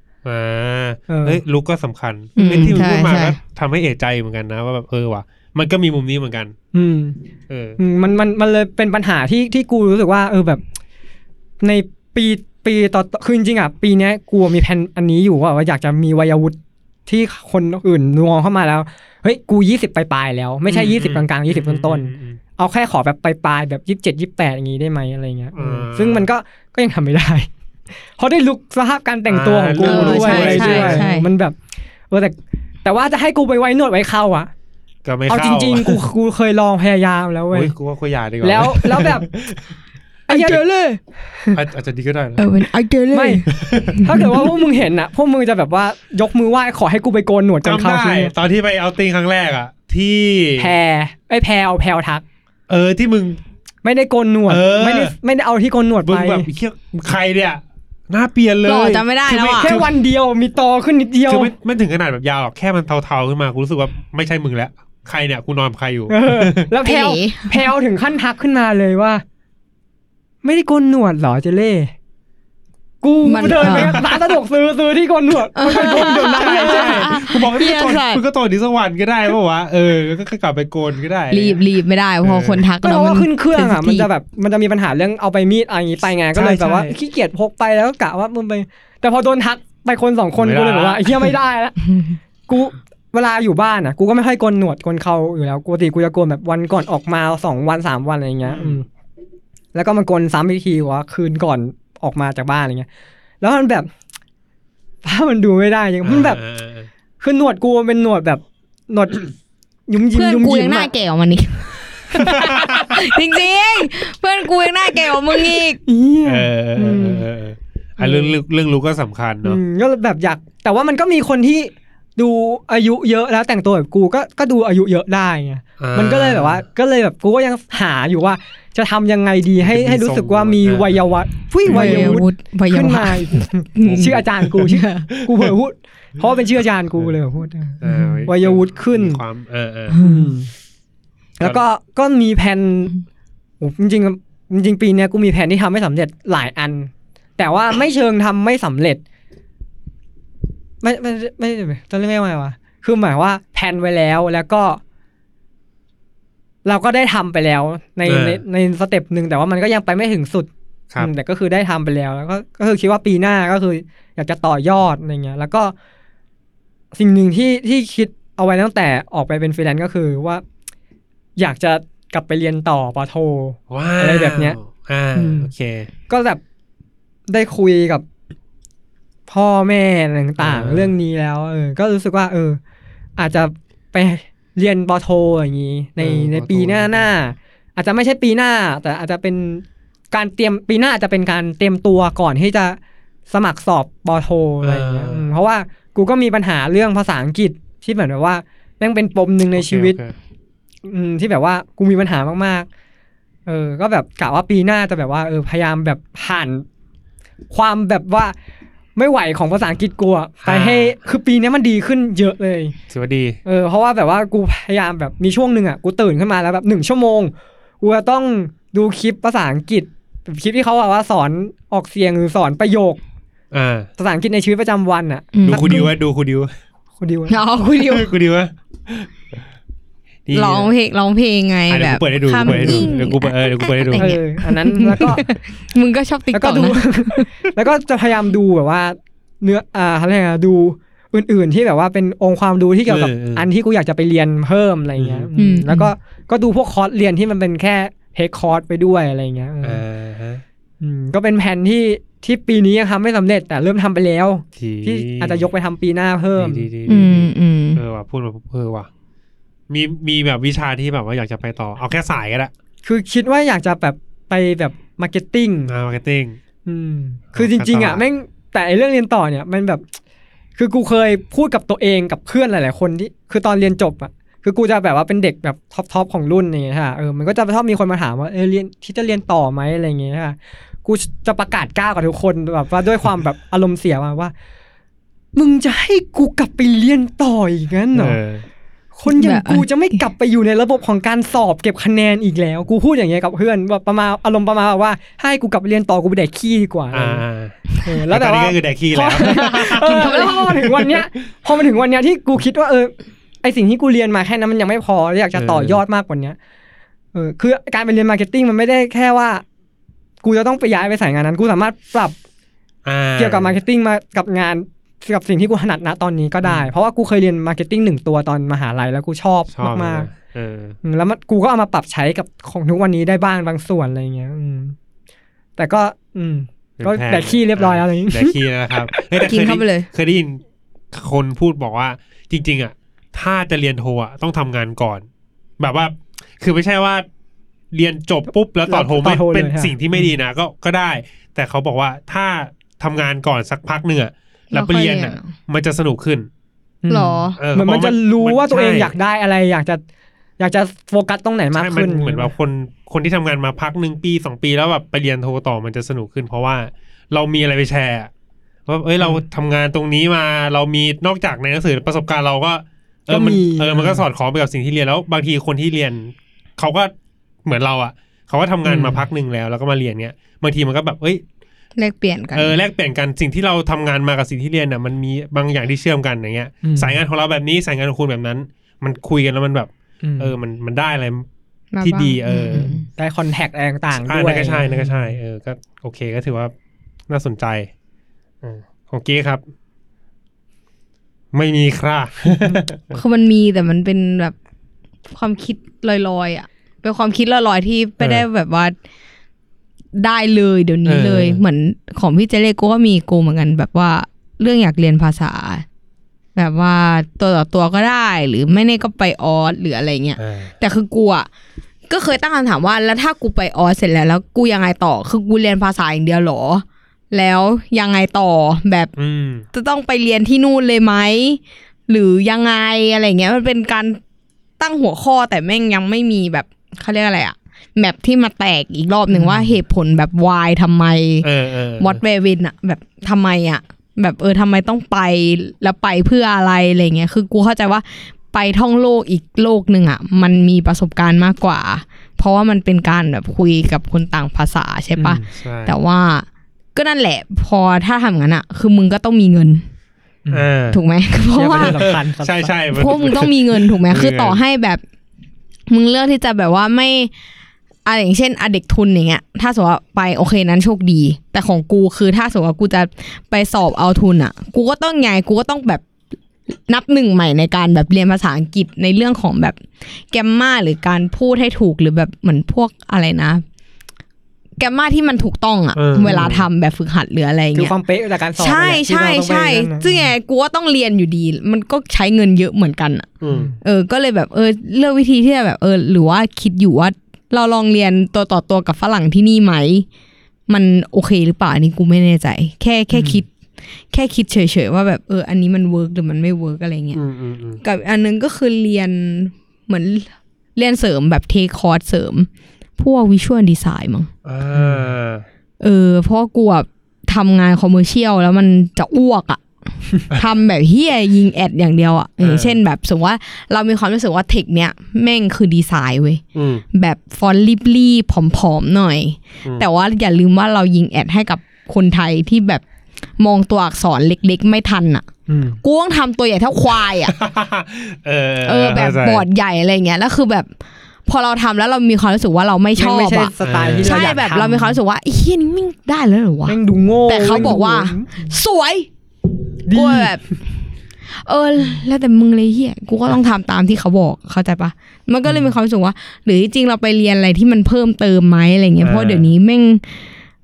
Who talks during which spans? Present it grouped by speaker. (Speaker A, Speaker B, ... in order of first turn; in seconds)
Speaker A: 0.2-6.5, 7.5-7.8, 20.7-22.4, 25.5-26.3, 29.3-31.1, 35.0-36.0, 37.5-39.7, 41.5-42.5, 43.5-44.3, 47.6-50.7, 52.7-53.4, 54.5-55.1, 56.0-59.9, 61.3-66.7, 73.7-74.2, 75.7-81.6, 82.2-82.7, 86.3-87.0, 90.4-91.3, 98.5-98.8, 106.0-106.9, 112.1-113.0, 116.2-119.6, 125.8-126.6, 129.6-130.9, 131.7-132.2, 133.8-135.5, 137.8-140.0, 158.1-158.4, 173.7-175.9, 180.4-180.9, 186.0-187.1, 194.6-195.3, 199.5-200.1, 210.4-211.0, 212.9-213.4, 223.5-223.9, 225.4-226.5, 227.7-229.1, 230.2-230.7, 231.7-234.2, 242.8-243.5, 245.0-245.3, 249.6-250.4, 254.6-255.4, 256.4-258.9, 259.7-262.5, 265.7-266.4, 267.3-268.0, 287.9-288.4, 296.9-301.0, 305.3-305.8, 312.8-313.6, 316.4-316.7, 319.5-320.8, 326.8-330.4, 330.9-335.1, 335.6-337.1, 337.7-346.3, 347.4-348.9, 351.5-358.1, 358.7-366.9, 367.4-371.2, 372.3-381.3, 381.8-382.7, 383.9-386.5, 387.1-387.7, 388.4-389.4, 391.3-393.0, 398.0-398.2, 400.8-401.4, 410.2-410.5, 419.0-419.4, 431.2-432.0, 445.3-445.8, 450.3-450.8, 451.6-454.4, 475.7-476.5, 483.2-483.5, 496.9-497.6, 504.2-505.2, 512.2-512.6, 516.3-516.6, 527.0-529.2, 533.4-533.9, 548.8-549.3
Speaker B: 1.1-1.4, 6.7-7.2, 7.8-10.6, 11.6-27.5, 28.2-31.6, 32.1-34.5, 35.3-37.7, 38.4-39.3, 40.3-40.6, 41.3-41.6, 43.1-48.3, 50.6-52.2, 53.8-56.5, 59.5-61.5, 66.1-69.2, 70.4-71.9, 73.0-77.2, 82.8-91.9, 92.5-98.8, 99.7-102.9, 103.4-103.9, 105.0-106.4, 107.2-109.3, 109.9-110.9, 115.8-117.3, 118.0-118.4, 119.4-139.2, 140.0-140.5, 141.4-142.9, 143.6-149.0, 150.8-154.8, 156.6-165.7, 166.9-170.4, 171.4-174.6, 175.1-175.5, 176.1-176.4, 177.3-178.0, 179.3-182.6, 183.2-192.8, 193.3-200.0, 200.8-202.7, 203.4-206.6, 207.5-208.3, 208.9-212.7, 213.4-223.0, 224.0-225.8, 227.0-227.3, 232.4-232.9, 234.0-235.2, 236.3-249.8, 250.8-256.7, 262.8-265.7, 266.6-269.8, 270.6-284.3, 285.4-288.2, 288.9-297.2, 297.8-306.4, 307.1-309.4, 310.2-312.1, 313.2-320.1, 320.8-324.8, 325.6-328.4, 338.7-340.1, 346.8-349.8, 350.4-352.3, 363.1-364.0, 368.6-369.0, 376.6-377.0, 380.0-380.3, 382.5-385.1, 429.1-429.5, 445.0-445.2, 451.3-452.5, 477.5-480.1, 483.3-483.6, 492.9-493.2, 504.5-504.8, 525.3-525.6, 532.8-534.8, 536.5-538.3, 539.6-540.1
Speaker C: 2.4-3.4, 29.8-31.3, 40.3-41.0, 42.4-44.4, 58.6-59.8, 66.8-67.6, 73.2-74.0, 75.5-78.2, 81.3-84.1, 110.1-115.8, 131.7-135.1, 137.9-138.2, 139.9-140.2, 225.3-225.9, 227.3-228.1, 230.3-237.3, 245.3-245.9, 256.9-257.8, 289.1-290.0, 299.2-300.4, 329.2-329.9, 344.5-345.3, 346.9-347.4, 371.8-372.6, 381.7-382.9, 392.9-394.3, 395.1-398.7, 399.9-405.6, 406.3-411.3, 411.9-418.9, 419.5-424.0, 424.6-431.3, 431.8-449.6, 450.7-451.8, 452.7-454.8, 455.7-457.1, 457.8-465.8, 466.7-473.4, 474.6-477.7, 478.4-483.1, 483.6-489.9, 490.5-493.3, 493.9-497.0, 497.6-504.1, 505.6-509.4, 509.9-516.2, 516.7-522.6, 523.2-525.0, 525.6-527.1, 528.4-530.5, 531.0-538.9, 539.7-540.2, 541.1-550.0